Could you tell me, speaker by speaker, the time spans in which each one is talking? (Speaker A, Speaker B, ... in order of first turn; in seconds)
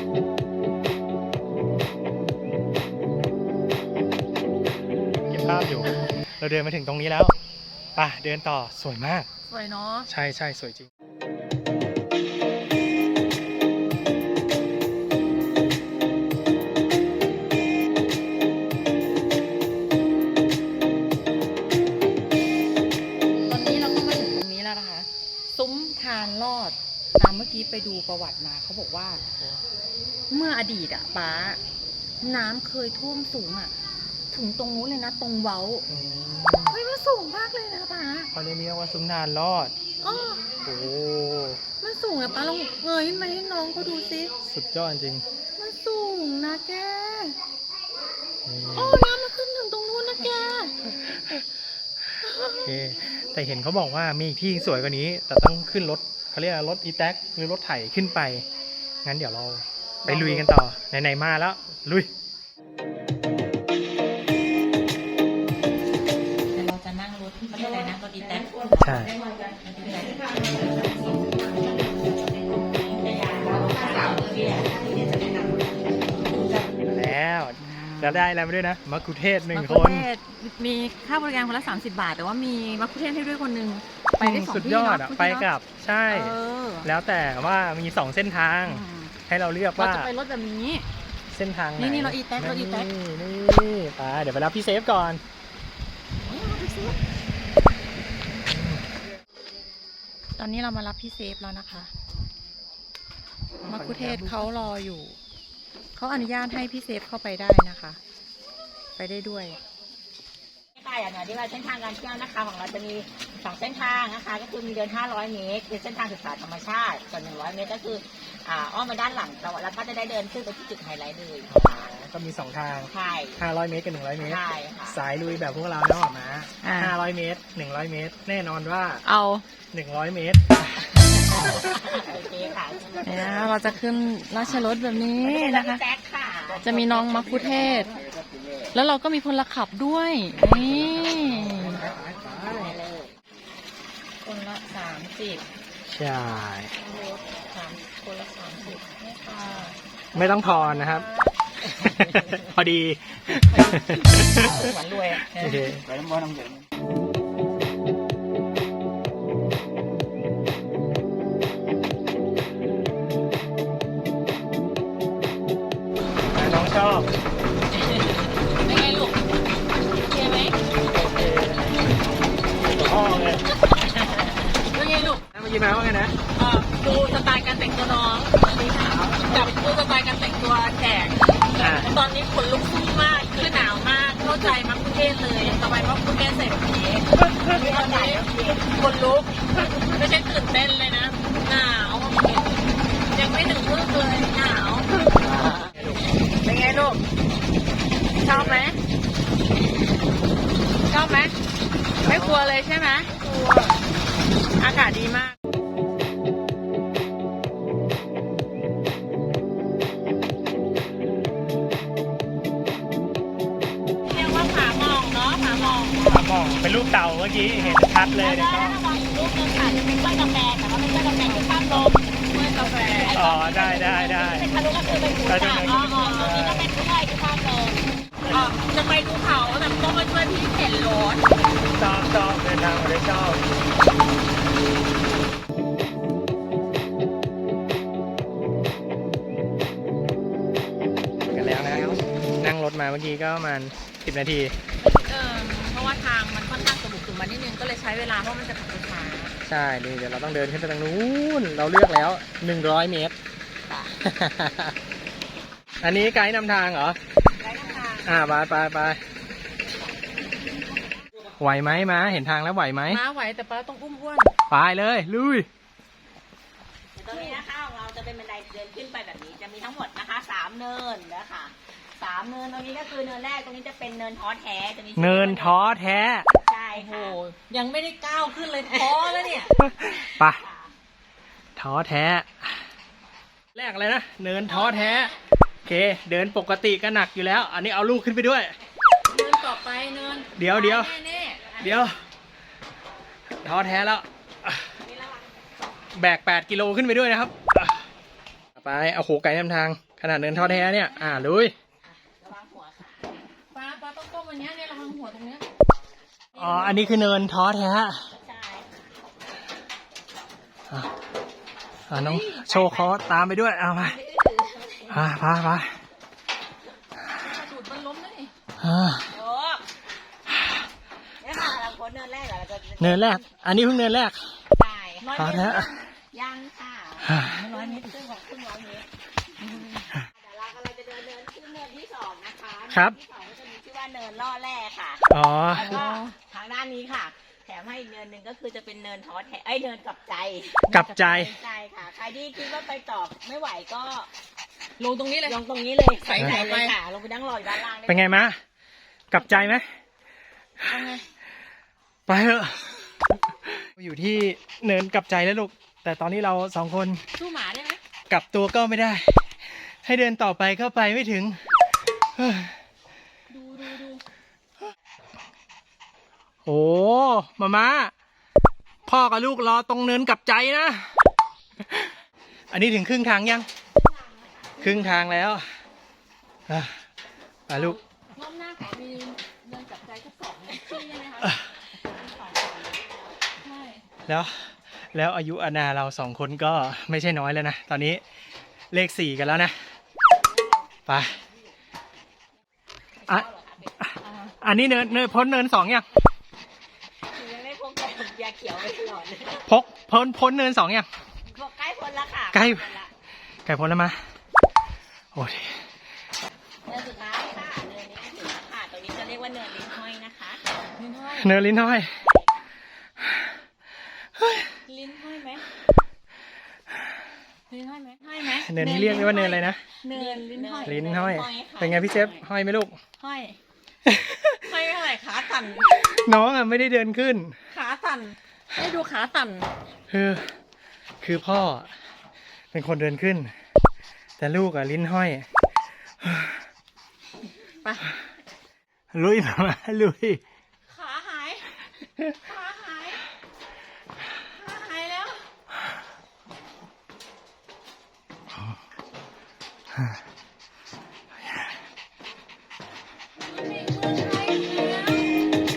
Speaker A: 5.3-7.3, 8.0-9.3, 10.1-10.9, 35.9-36.8, 38.3-39.8, 40.6-41.6, 44.5-45.2, 48.5-49.1, 52.5-58.5, 59.0-62.1, 68.8-69.1, 76.8-80.1, 84.2-90.1, 91.3-95.2, 98.5-98.8, 103.6-104.5, 121.5-129.1, 129.7-130.4, 140.4-142.7, 145.9-146.8, 150.1-151.1, 151.7-154.7, 155.3-155.9, 166.3-167.1, 170.9-171.8, 172.7-173.5, 175.3-176.2, 181.6-182.0, 195.1-196.1, 198.2-198.7, 202.0-202.5, 216.1-218.8, 223.1-224.5, 225.3-226.7, 231.7-233.5, 241.3-244.6, 249.4-253.2, 254.0-254.8, 255.8-257.0, 258.0-259.0, 261.4-263.0, 264.5-265.5, 275.0-276.3, 279.6-280.4, 281.6-282.6, 283.6-288.5, 290.4-291.0, 291.6-292.0, 293.4-294.7, 295.9-297.9, 298.6-301.5, 306.4-308.0, 311.9-314.0, 314.9-315.8, 318.6-319.1, 322.8-324.4, 325.1-325.8, 327.1-327.4, 332.7-333.0, 335.1-335.8, 340.7-341.3, 347.9-348.4, 349.1-349.7, 352.1-357.1, 358.1-361.4, 362.2-362.6, 366.4-367.9, 368.9-371.0, 371.7-371.9, 372.5-373.5, 374.6-375.5, 376.5-376.9, 377.5-377.8, 381.2-381.5, 384.1-388.0, 388.7-389.6, 390.9-391.1, 393.8-395.9, 399.4-400.9, 402.3-402.7, 403.5-404.0, 405.1-405.6, 411.2-412.0, 414.2-414.5, 418.4-419.6, 420.6-422.8, 423.9-424.5, 425.5-427.4, 429.9-430.4, 431.0-431.7, 432.5-433.3, 434.2-435.3, 436.0-436.4, 438.9-440.2
Speaker B: 9.5-10.1, 23.4-29.2, 30.3-31.6, 32.2-33.7, 34.3-35.9, 36.7-38.3, 40.0-40.5, 41.8-44.3, 45.6-47.4, 48.7-50.8, 52.2-52.7, 60.0-60.5, 66.5-69.1, 69.6-73.1, 73.6-74.1, 77.6-78.3, 79.5-85.5, 86.1-86.9, 88.6-89.1, 89.8-90.9, 91.8-92.9, 96.3-97.0, 100.4-101.9, 103.6-105.2, 106.0-108.0, 109.0-109.6, 126.6-127.0, 129.0-129.4, 131.4-131.8, 133.0-135.8, 136.6-138.0, 138.7-141.9, 144.2-145.4, 146.8-151.3, 153.5-155.7, 168.6-169.2, 170.1-170.6, 173.5-175.2, 176.8-178.4, 178.9-192.5, 193.1-195.1, 196.4-197.0, 198.2-198.8, 200.9-201.3, 202.0-203.8, 204.6-205.3, 214.1-214.7, 215.5-215.9, 221.0-221.6, 222.3-223.2, 225.4-226.5, 229.3-231.2, 241.3-242.0, 244.8-249.3, 257.7-258.0, 262.9-264.3, 267.1-267.4, 276.7-279.7, 284.5-285.1, 289.1-291.7, 300.3-301.3, 303.5-305.5, 306.3-307.0, 311.9-313.0, 317.2-318.3, 325.0-325.8, 327.2-328.0, 329.4-329.9, 335.6-336.2, 340.7-341.3, 344.8-345.4, 346.0-346.8, 349.1-349.6, 350.6-351.1, 357.1-357.8, 363.3-364.0, 374.6-375.1, 377.5-381.4, 383.4-383.8, 394.0-394.3, 410.8-411.3, 414.7-415.4, 417.5-421.1, 423.0-423.4, 424.4-425.8, 427.5-429.5, 437.6-437.9, 440.7-441.5, 442.2-443.0, 444.3-445.3, 453.2-455.3
Speaker C: 67.5-70.3, 73.0-76.3, 110.8-121.9, 122.9-123.4, 124.2-125.0, 131.3-133.8, 135.2-138.8, 142.3-143.2, 176.4-176.8, 178.4-179.6, 187.4-188.8, 191.4-192.5, 214.1-216.3, 218.2-231.2, 257.4-258.1, 266.9-277.2, 278.6-280.7, 294.8-295.4, 301.9-303.2, 308.1-308.8, 313.8-315.1, 319.1-319.6, 321.2-323.4, 324.6-328.9, 330.1-344.1, 345.2-348.3, 382.0-382.9, 393.0-393.8, 397.1-399.5, 401.3-402.9, 406.7-410.4, 411.9-412.5, 419.9-422.3